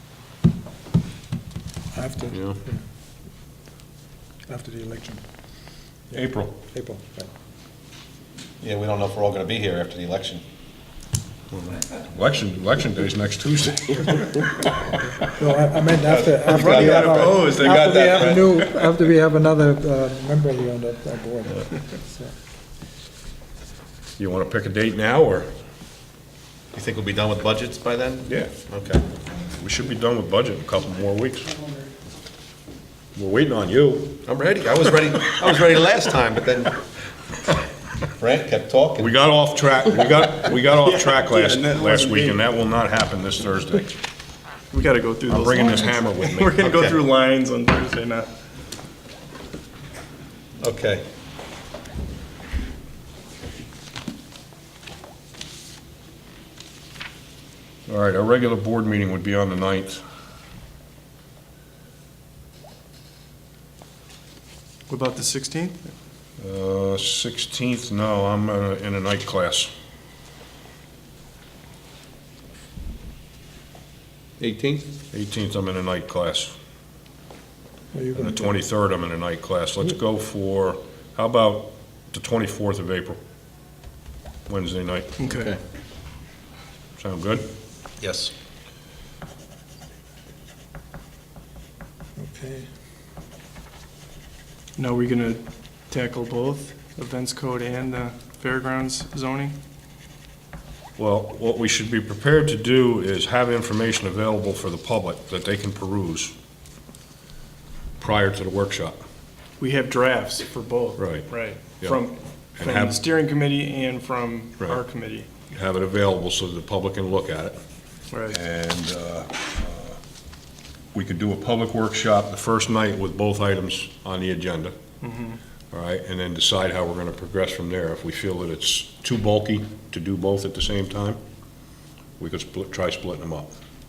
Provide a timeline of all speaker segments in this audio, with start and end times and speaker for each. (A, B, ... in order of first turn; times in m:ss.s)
0:01.9-0:02.8 A
0:02.3-0:02.6 B
0:04.5-0:05.2 A
0:06.1-0:06.6 B
0:06.7-0:07.3 A
0:08.6-0:10.4 C
0:11.5-0:14.8 B
0:15.2-0:22.3 A
0:16.0-0:18.8 C
0:16.5-0:17.5 D
0:24.2-0:25.5 B
0:26.7-0:29.0 C
0:28.3-0:28.5 B
0:29.4-0:31.7 B
0:33.2-0:34.2 B
0:34.2-0:36.8 C
0:38.2-0:39.1 C
0:39.0-0:44.0 B
0:40.8-0:42.4 D
0:44.7-0:48.3 D
0:45.3-0:46.7 B
0:46.6-0:47.0 C
0:50.6-0:51.0 C
0:57.9-1:00.0 B
1:04.9-1:05.9 D
1:06.4-1:09.7 B
1:14.4-1:14.9 C
1:15.1-1:16.5 B
1:17.9-1:18.4 A
1:18.2-1:23.2 B
1:24.5-1:25.2 B
1:25.2-1:25.6 D
1:27.0-1:27.4 B
1:28.0-1:28.3 C
1:32.2-1:32.7 A
1:34.8-1:39.6 D
1:41.0-1:46.3 B
1:48.0-1:49.0 B
1:49.6-1:55.3 D
1:51.0-1:51.3 B
1:52.6-1:53.0 B
1:55.5-1:57.6 B
1:58.1-1:58.4 D
1:58.3-2:00.0 B
2:00.9-2:04.8 B
2:05.0-2:05.4 D
2:05.7-2:11.2 B
2:12.2-2:13.6 B